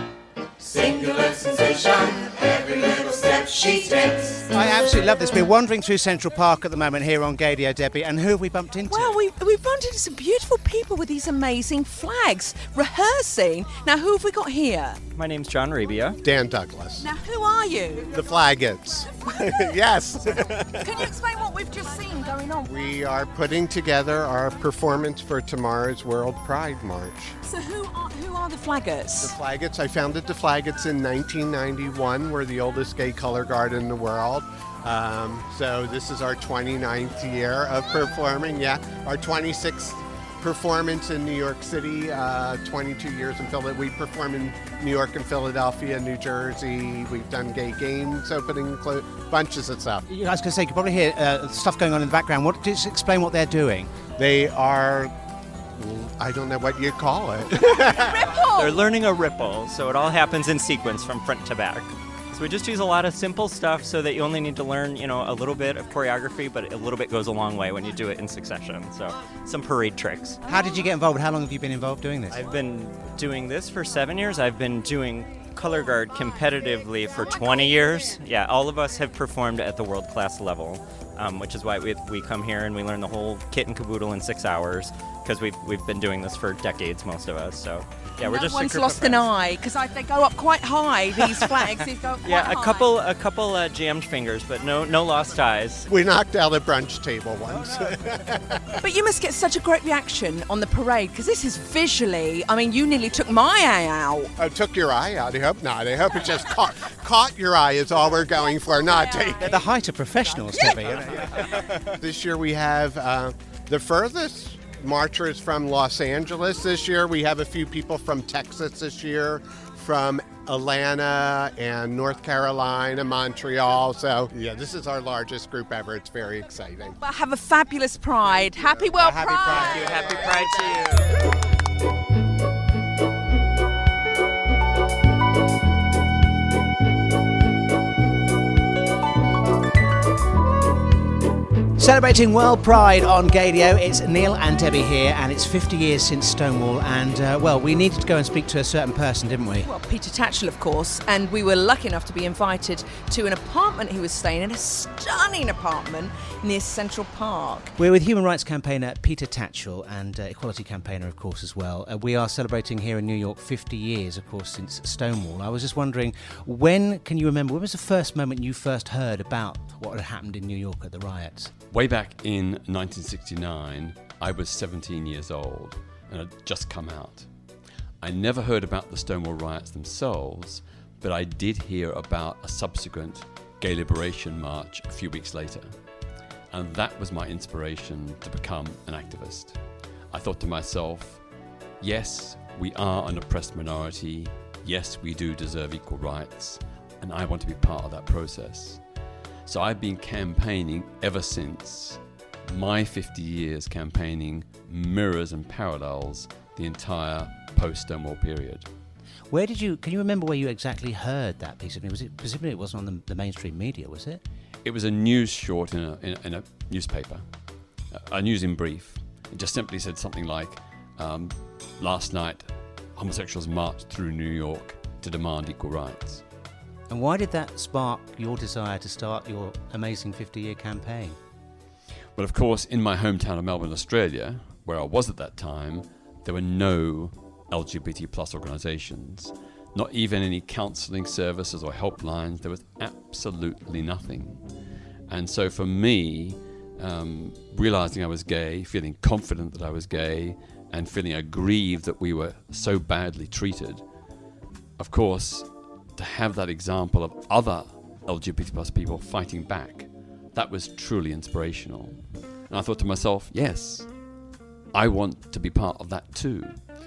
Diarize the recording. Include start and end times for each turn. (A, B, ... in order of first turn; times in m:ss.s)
0:00.6-0:04.4 A
0:04.5-0:09.2 B
0:08.9-0:15.0 C
0:15.2-0:16.2 D
0:16.2-0:17.1 E
0:17.0-0:18.1 C
0:18.1-0:20.9 E
0:20.8-0:22.7 C
0:22.6-0:27.3 E
0:27.4-0:29.3 C
0:29.2-0:50.0 E
0:50.1-0:54.0 B
0:54.1-0:55.1 E
0:55.8-0:58.2 E
0:57.6-0:58.8 C
0:58.6-1:10.4 D
1:10.5-1:12.4 B
1:12.3-1:29.3 D
1:28.2-1:32.9 C
1:32.2-1:35.8 D
1:35.9-1:38.6 E
1:38.8-1:44.3 C
1:44.4-1:49.6 E
1:49.4-1:51.1 B
1:51.0-2:07.0 E
2:07.0-2:10.5 C
2:08.8-2:11.0 E
2:21.8-2:29.7 B
2:29.6-2:37.7 C
2:37.8-2:51.5 B
2:51.7-2:57.3 F
2:58.0-3:05.7 F
3:06.5-3:09.6 F
3:10.1-3:11.2 F
3:11.8-3:18.8 F
3:19.4-3:28.7 F
3:29.3-3:34.2 B
3:34.6-3:37.2 F
3:37.9-3:46.2 F
3:46.9-3:51.2 B
3:52.2-4:04.4 F
4:05.1-4:13.8 F
4:14.8-4:23.9 F
4:24.7-4:26.6 F